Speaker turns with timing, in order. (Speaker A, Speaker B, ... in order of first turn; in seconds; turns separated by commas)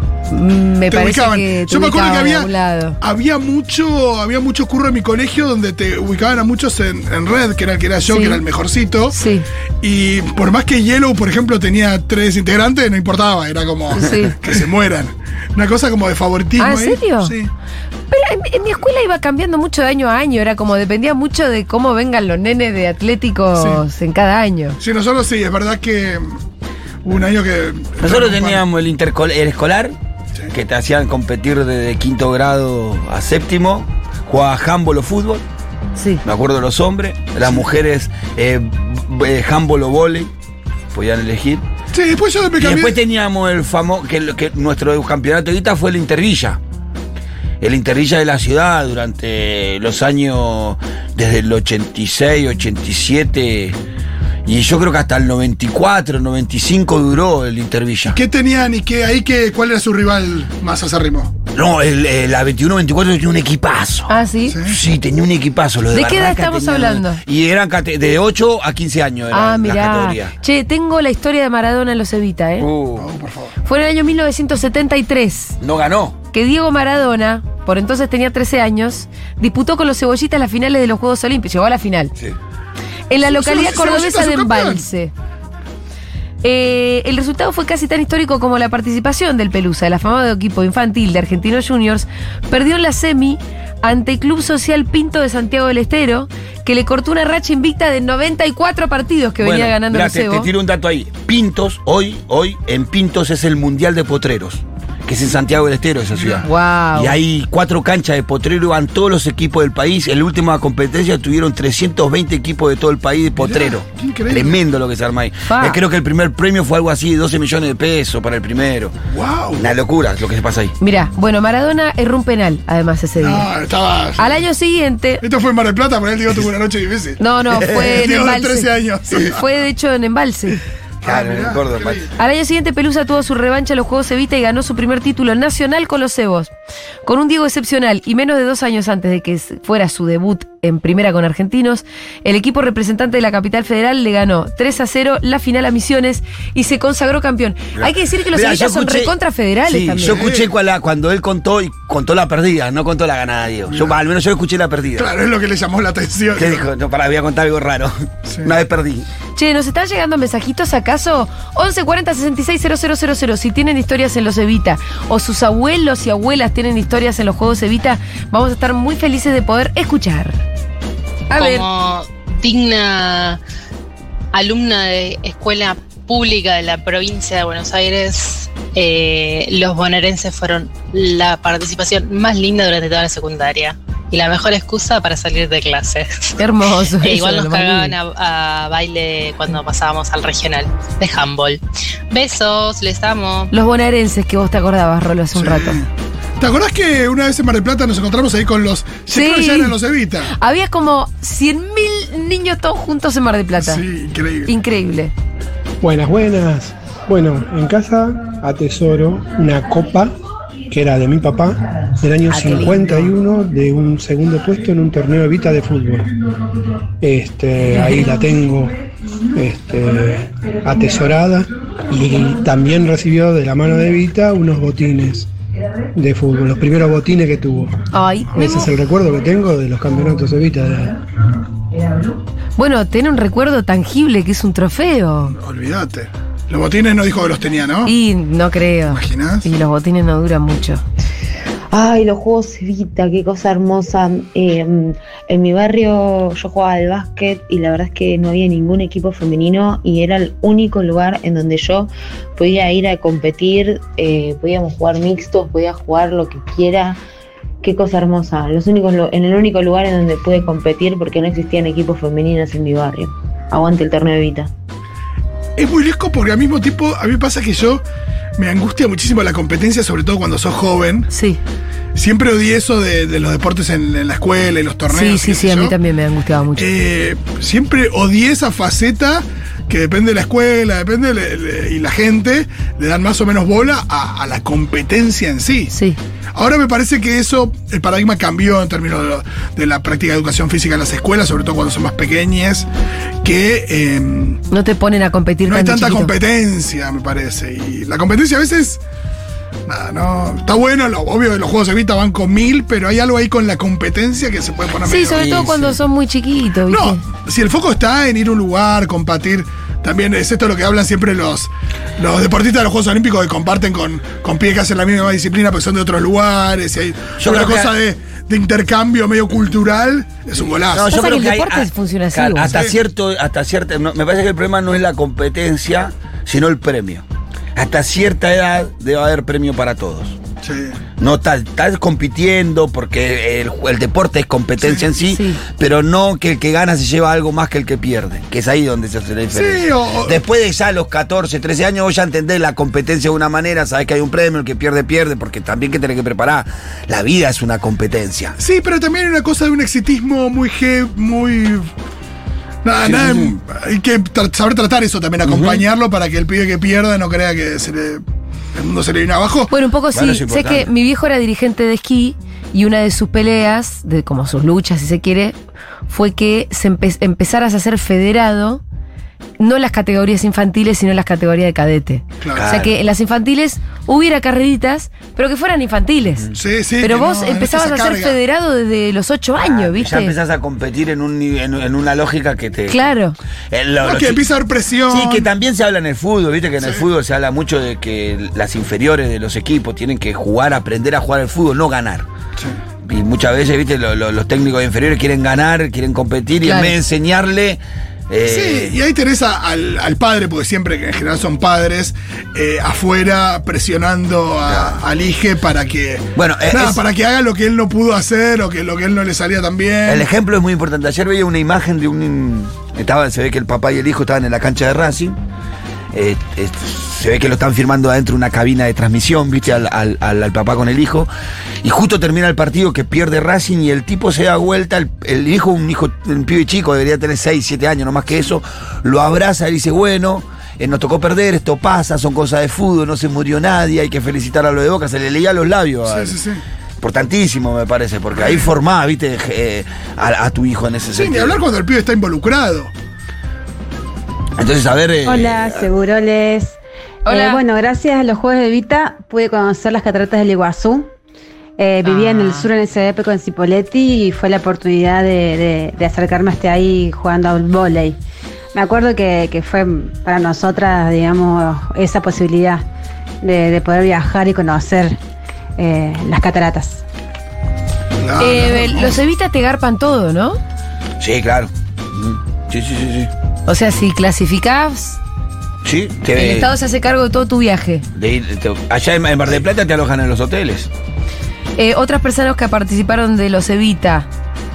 Speaker A: 0.3-3.0, Speaker B: 0.9-9.2, Speaker A: 8.1-8.4, Speaker A: 9.1-9.4, Speaker B: 9.8-17.5, Speaker A: 13.9-14.3, Speaker A: 16.6-17.3, Speaker A: 18.1-24.8, Speaker B: 23.6-23.8, Speaker B: 24.8-26.3, Speaker B: 27.0-28.6, Speaker C: 28.0-29.9, Speaker C: 30.5-35.4, Speaker A: 36.0-36.2, Speaker C: 36.2-40.3, Speaker B: 37.4-37.7, Speaker C: 40.9-41.6, Speaker B: 41.9-43.0, Speaker C: 42.6-46.6, Speaker C: 47.6-53.8, Speaker C: 54.5-58.2, Speaker B: 58.1-61.3, Speaker C: 61.5-64.1, Speaker A: 64.1-64.6, Speaker B: 64.5-64.8, Speaker C: 64.6-70.3, Speaker A: 65.9-67.2, Speaker A: 69.3-72.7, Speaker C: 72.6-73.1, Speaker B: 73.0-73.5, Speaker A: 73.6-75.6, Speaker C: 75.6-76.2, Speaker A: 76.3-82.1, Speaker A: 83.1-85.1, Speaker B: 83.3-84.8, Speaker A: 86.4-100.5, Speaker C: 99.4-118.9, Speaker B: 106.1-106.5, Speaker A: 106.4-107.1, Speaker B: 113.4-114.6, Speaker A: 115.5-115.8, Speaker B: 119.1-119.7, Speaker C: 119.5-120.7, Speaker A: 120.8-123.5, Speaker B: 123.2-124.4, Speaker A: 124.2-125.2, Speaker B: 125.2-129.4, Speaker A: 127.2-130.6, Speaker B: 131.0-132.1, Speaker C: 131.0-132.1, Speaker A: 132.2-136.5, Speaker A: 137.0-150.2, Speaker C: 147.8-149.1, Speaker C: 149.7-155.1, Speaker B: 150.0-150.5, Speaker B: 153.7-153.9, Speaker B: 154.9-156.6, Speaker C: 156.3-159.1, Speaker B: 158.3-158.5, Speaker A: 159.3-170.4, Speaker A: 171.3-171.7, Speaker D: 171.3-173.4, Speaker D: 174.3-186.4, Speaker A: 186.4-187.9, Speaker D: 187.0-193.5, Speaker A: 193.5-195.8, Speaker B: 195.3-200.3, Speaker A: 199.1-199.8, Speaker A: 200.3-203.8, Speaker B: 203.6-204.5, Speaker A: 204.4-205.1, Speaker E: 205.8-210.2, Speaker E: 210.7-216.1, Speaker A: 212.3-213.1, Speaker E: 217.0-218.8, Speaker E: 219.3-225.3, Speaker E: 225.9-227.8, Speaker A: 227.9-228.7, Speaker E: 228.3-231.0, Speaker A: 232.6-235.3, Speaker B: 235.3-237.9, Speaker A: 237.8-240.8, Speaker B: 238.9-239.5, Speaker F: 241.7-257.0, Speaker F: 257.6-264.5, Speaker B: 265.6-267.8, Speaker B: 268.4-271.1, Speaker A: 271.1-271.4, Speaker B: 271.9-275.7, Speaker A: 274.9-276.7, Speaker B: 276.6-285.7, Speaker A: 285.7-286.0, Speaker B: 286.3-292.7, Speaker B: 293.2-294.4, Speaker A: 294.5-296.1, Speaker B: 295.4-298.8, Speaker B: 299.7-305.5, Speaker A: 304.8-307.0, Speaker C: 305.1-305.7, Speaker B: 306.7-320.9, Speaker C: 317.2-317.7, Speaker C: 320.4-327.0, Speaker A: 320.9-322.5, Speaker B: 322.5-322.8, Speaker C: 327.6-330.2, Speaker B: 330.4-330.8, Speaker C: 331.0-348.4, Speaker A: 335.1-335.4, Speaker B: 339.3-340.2, Speaker B: 348.4-351.7, Speaker B: 352.6-358.0, Speaker C: 352.8-353.3, Speaker C: 355.2-355.6, Speaker B: 358.5-359.5, Speaker A: 359.5-365.3, Speaker C: 359.9-360.7, Speaker A: 365.9-368.6, Speaker A: 369.4-376.3, Speaker B: 372.2-372.5, Speaker C: 372.3-372.7, Speaker B: 376.4-378.2, Speaker A: 376.8-380.1, Speaker C: 379.4-382.9, Speaker A: 382.7-383.1, Speaker C: 383.5-384.2, Speaker B: 383.8-385.3, Speaker C: 384.9-392.1, Speaker B: 386.6-386.8, Speaker C: 392.8-398.8, Speaker A: 396.4-396.7, Speaker B: 398.2-410.1, Speaker C: 404.4-404.8, Speaker C: 406.1-406.8, Speaker C: 409.9-415.2, Speaker C: 415.9-421.1, Speaker C: 421.6-436.2, Speaker B: 435.9-436.4, Speaker C: 436.8-441.4, Speaker B: 438.2-438.4, Speaker B: 440.9-442.7, Speaker C: 444.4-445.7, Speaker G: 445.0-450.9, Speaker A: 447.1-447.4, Speaker G: 451.6-458.0, Speaker A: 451.8-452.5, Speaker G: 458.5-462.6, Speaker G: 463.2-465.0, Speaker G: 465.6-466.8, Speaker B: 468.0-469.0, Speaker A: 468.2-470.4, Speaker C: 471.0-473.1, Speaker A: 473.5-475.0, Speaker C: 475.6-476.5, Speaker A: 476.1-477.8, Speaker C: 477.9-480.7, Speaker A: 481.6-484.1